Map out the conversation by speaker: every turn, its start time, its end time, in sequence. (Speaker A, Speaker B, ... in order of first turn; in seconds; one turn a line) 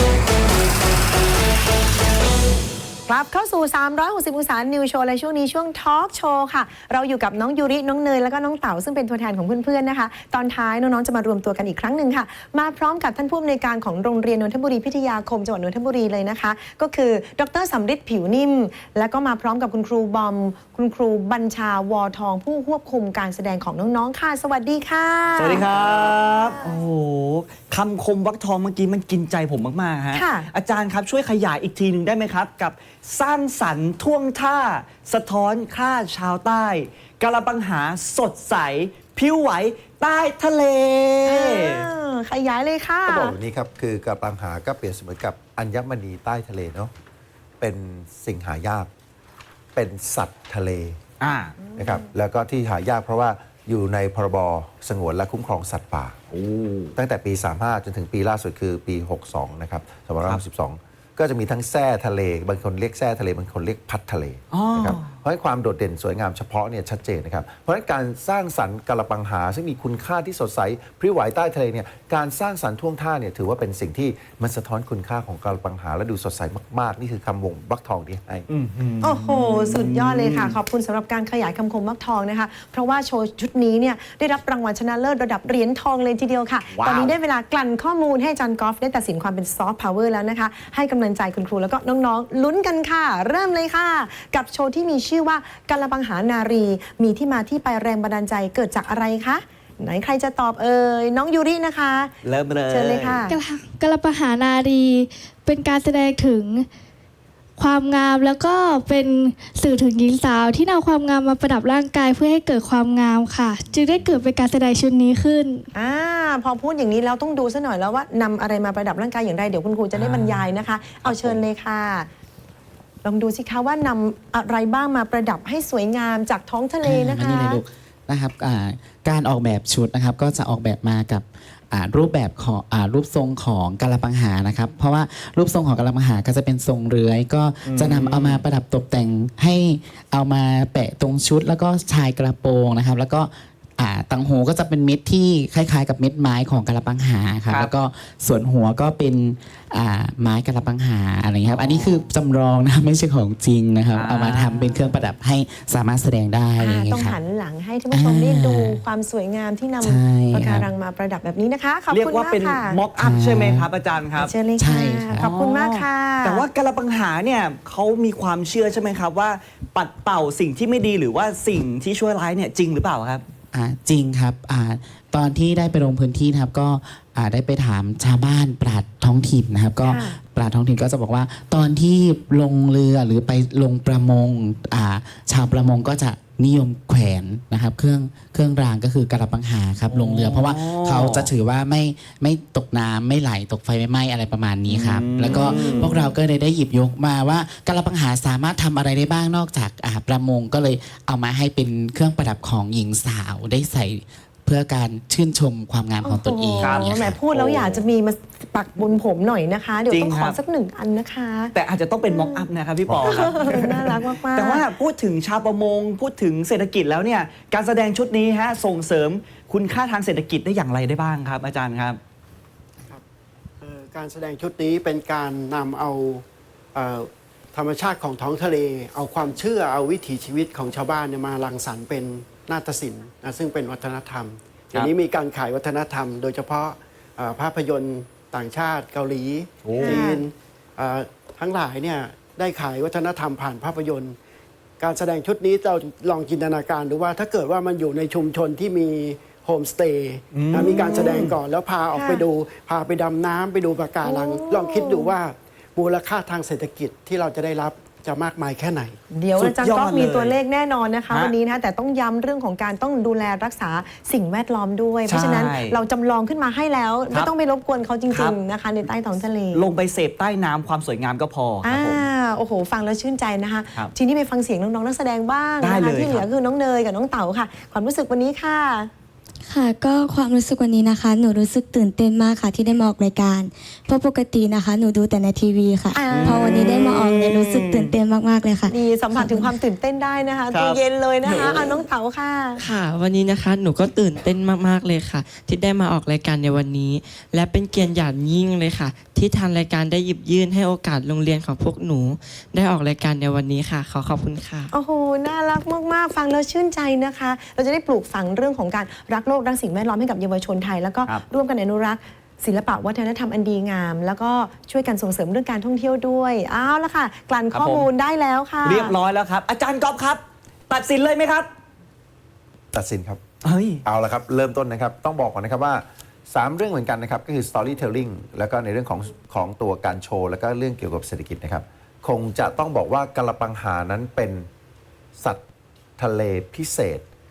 Speaker A: 3.1-25.7
Speaker B: 25.4-41.9
Speaker A: 30.1-30.5
Speaker A: 41.2-43.3
Speaker C: 43.0-46.9
Speaker C: 47.6-48.9
Speaker C: 49.7-51.0
Speaker B: 51.2-51.5
Speaker A: 51.6-52.1
Speaker C: 51.8-56.2
Speaker B: 56.3-56.9
Speaker C: 56.9-78.4
Speaker B: 64.5-65.1
Speaker B: 78.5-80.5
Speaker A: 79.0-102.1
Speaker B: 86.7-87.1
Speaker B: 102.2-103.2
Speaker A: 102.7-103.3
Speaker D: 103.3-106.7
Speaker D: 107.6-115.7
Speaker A: 115.7-122.1
Speaker B: 119.9-120.4
Speaker A: 123.0-127.6
Speaker E: 126.8-157.2
Speaker B: 137.6-138.4
Speaker B: 151.4-152.1
Speaker B: 153.9-154.9
Speaker A: 156.6-162.8
Speaker E: 157.9-158.8
Speaker E: 159.8-160.7
Speaker B: 161.9-164.3
Speaker E: 163.0-163.7
Speaker A: 164.2-166.4
Speaker E: 164.6-165.3
Speaker B: 165.2-173.2
Speaker E: 173.5-207.2
Speaker A: 179.8-180.2
Speaker B: 189.9-191.3
Speaker B: 194.7-196.1
Speaker A: 195.5-196.1
Speaker A: 206.0-211.5
Speaker B: 206.6-207.8
Speaker B: 209.9-210.4
Speaker B: 211.5-222.0
Speaker A: 212.1-212.4
Speaker A: 213.0-214.7
Speaker F: 223.6-226.2
Speaker F: 226.7-244.2
Speaker B: 239.6-240.0
Speaker A: 239.8-240.2
Speaker F: 244.8-259.0
Speaker B: 250.3-251.3
Speaker A: 250.6-251.2
Speaker A: 251.9-252.2
Speaker A: 254.0-255.1
Speaker A: 259.1-269.6
Speaker B: 259.4-260.4
Speaker B: 265.1-265.8
Speaker B: 268.1-268.4
Speaker B: 269.5-272.0
Speaker A: 271.6-278.9
Speaker B: 275.6-276.2
Speaker G: 279.4-289.5
Speaker A: 285.9-286.8
Speaker B: 286.1-287.9
Speaker A: 288.7-292.6
Speaker B: 290.5-291.8
Speaker H: 292.6-304.7
Speaker A: 304.7-318.9
Speaker B: 317.5-317.9
Speaker B: 318.6-321.5
Speaker C: 322.7-323.2
Speaker B: 323.4-323.8
Speaker C: 323.8-334.5
Speaker C: 335.2-335.4
Speaker C: 336.0-337.0